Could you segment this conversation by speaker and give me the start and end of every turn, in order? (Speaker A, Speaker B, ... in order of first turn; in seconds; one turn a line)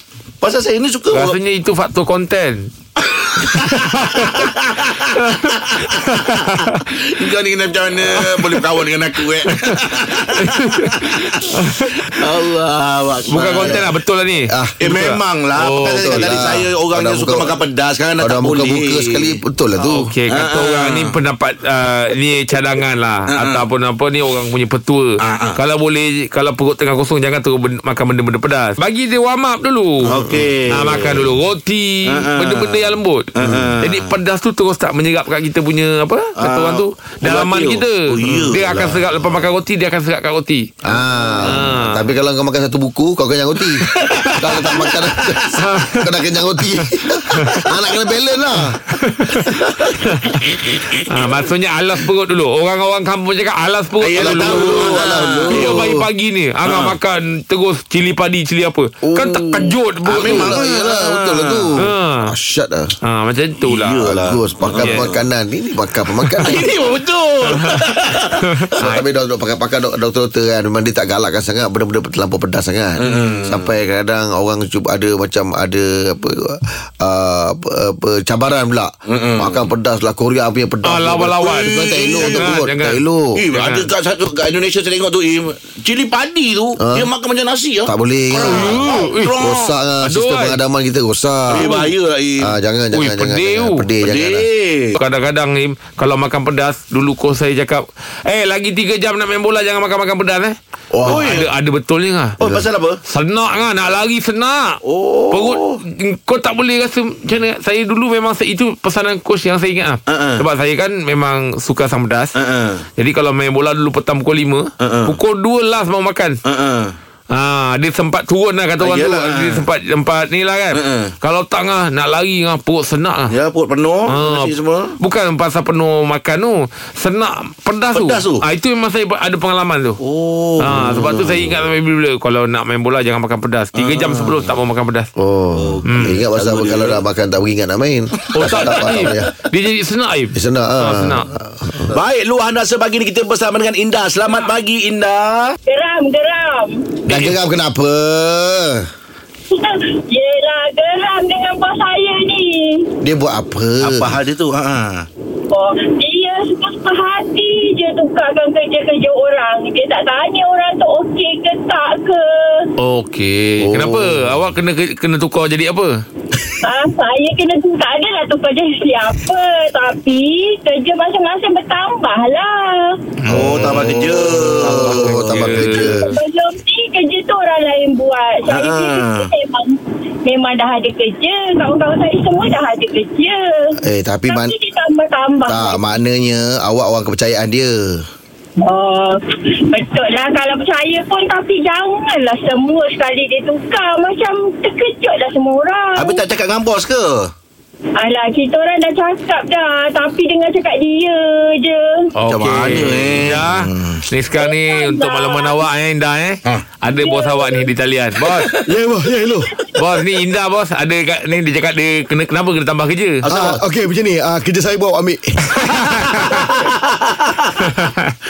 Speaker A: 0.4-1.4
Speaker B: 1.1-2.7
Speaker A: 3.0-6.2
Speaker B: 3.4-4.5
Speaker B: 5.2-6.8
Speaker A: 6.8-11.5
Speaker B: 8.1-8.7
Speaker B: 9.4-12.2
Speaker A: 12.1-13.8
Speaker B: 13.3-16.6
Speaker C: 13.3-13.8
Speaker C: 14.5-14.8
Speaker A: 14.8-21.1
Speaker C: 15.9-17.5
Speaker C: 18.2-20.0
Speaker B: 19.8-30.2
Speaker A: 23.3-23.6
Speaker A: 25.2-25.6
Speaker A: 30.0-31.4
Speaker B: 30.7-40.7
Speaker A: 32.0-32.8
Speaker A: 33.4-34.1
Speaker A: 36.4-39.1
Speaker C: 40.9-48.8
Speaker B: 41.4-42.1
Speaker A: 44.0-45.5
Speaker B: 45.5-46.1
Speaker B: 47.4-47.6
Speaker B: 49.0-60.6
Speaker A: 54.0-55.9
Speaker C: 54.1-56.0
Speaker A: 56.6-57.0
Speaker C: 59.1-63.0
Speaker A: 60.0-61.9
Speaker B: 61.8-62.3
Speaker B: 63.0-64.1
Speaker A: 63.7-65.2
Speaker C: 64.0-66.7
Speaker B: 64.8-65.1
Speaker A: 66.2-68.5
Speaker B: 67.5-67.9
Speaker B: 68.5-69.0
Speaker C: 68.8-83.4
Speaker A: 73.0-73.7
Speaker A: 79.1-79.6
Speaker B: 80.8-83.9
Speaker A: 81.5-82.5
Speaker A: 83.3-89.7
Speaker C: 86.8-87.1
Speaker C: 87.9-91.7
Speaker B: 88.4-90.6
Speaker A: 91.5-92.5
Speaker B: 91.6-91.9
Speaker C: 92.4-94.5
Speaker B: 92.9-93.8
Speaker A: 94.0-95.0
Speaker B: 95.0-102.4
Speaker C: 100.9-101.4
Speaker A: 101.0-101.5
Speaker A: 102.4-103.0
Speaker B: 103.1-104.8
Speaker A: 104.8-105.8
Speaker B: 105.3-112.3
Speaker A: 110.1-110.4
Speaker A: 112.4-112.8
Speaker B: 113.0-116.4
Speaker A: 114.8-115.2
Speaker A: 116.4-117.0
Speaker B: 117.3-123.3
Speaker A: 118.8-119.6
Speaker A: 120.7-121.1
Speaker A: 123.3-125.0
Speaker B: 124.1-130.0
Speaker A: 127.9-128.4
Speaker A: 130.0-130.9
Speaker B: 130.6-135.1
Speaker C: 130.7-131.6
Speaker A: 133.8-134.4
Speaker C: 135.2-139.3
Speaker A: 135.6-137.0
Speaker B: 135.9-136.2
Speaker A: 138.2-139.1
Speaker B: 138.3-141.3
Speaker C: 140.3-142.0
Speaker A: 141.9-145.6
Speaker D: 145.7-146.8
Speaker C: 147.1-148.9
Speaker B: 147.1-147.3
Speaker D: 149.5-152.9
Speaker C: 153.0-154.2
Speaker A: 153.8-155.1
Speaker D: 155.5-162.7
Speaker B: 162.8-166.0
Speaker C: 163.6-164.3
Speaker D: 166.6-173.0
Speaker B: 173.2-176.2
Speaker A: 173.3-175.7
Speaker C: 173.3-176.1
Speaker D: 175.7-183.8
Speaker A: 178.5-179.3
Speaker C: 183.8-184.5
Speaker D: 184.3-185.8
Speaker C: 185.5-188.1
Speaker D: 188.6-196.2
Speaker A: 196.0-197.3
Speaker D: 198.0-202.1
Speaker B: 202.2-208.5
Speaker A: 202.3-204.1
Speaker D: 204.4-205.6
Speaker D: 206.9-207.7
Speaker A: 208.3-208.7
Speaker C: 208.7-209.5
Speaker B: 209.8-213.2
Speaker A: 213.2-213.6
Speaker C: 213.3-215.6
Speaker B: 215.6-216.2
Speaker A: 215.7-217.7
Speaker B: 217.8-218.1